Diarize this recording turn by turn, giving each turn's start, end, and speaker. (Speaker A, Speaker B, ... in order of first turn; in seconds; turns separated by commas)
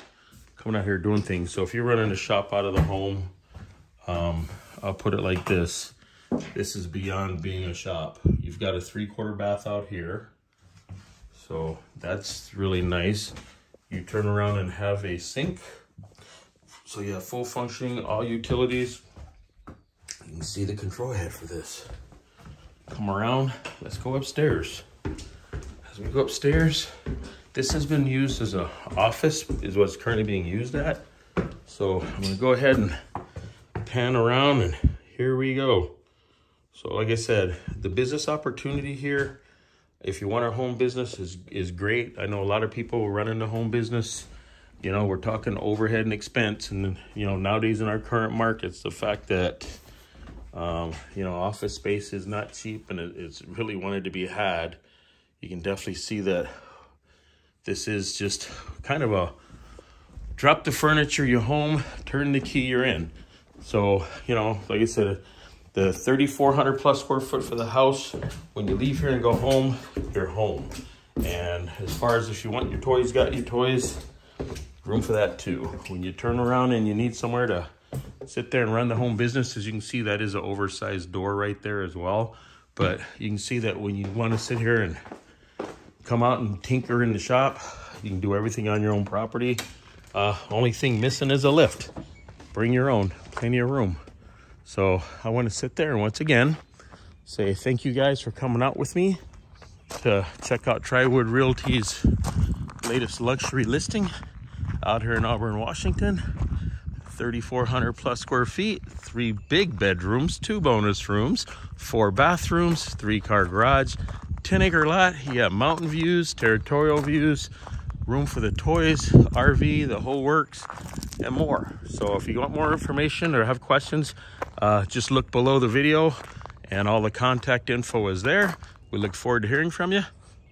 Speaker A: 0.6-3.3, Speaker A: 4.0-5.9, Speaker A: 6.5-10.3, Speaker A: 11.3-13.3, Speaker A: 13.9-15.6, Speaker A: 16.9-19.0, Speaker A: 20.2-21.9, Speaker A: 22.9-24.8, Speaker A: 25.8-26.9, Speaker A: 27.5-31.0, Speaker A: 31.7-33.0, Speaker A: 33.8-36.0, Speaker A: 36.7-39.4, Speaker A: 40.0-44.3, Speaker A: 44.8-49.8, Speaker A: 50.5-54.8, Speaker A: 55.4-56.5, Speaker A: 57.6-59.4, Speaker A: 60.4-65.2, Speaker A: 65.7-74.0, Speaker A: 74.8-77.7, Speaker A: 78.2-85.0, Speaker A: 86.0-89.6, Speaker A: 90.1-91.9, Speaker A: 92.5-94.0, Speaker A: 94.6-96.6, Speaker A: 97.2-99.2, Speaker A: 99.9-102.1, Speaker A: 102.8-104.1, Speaker A: 104.8-106.2, Speaker A: 107.0-117.5, Speaker A: 118.0-130.1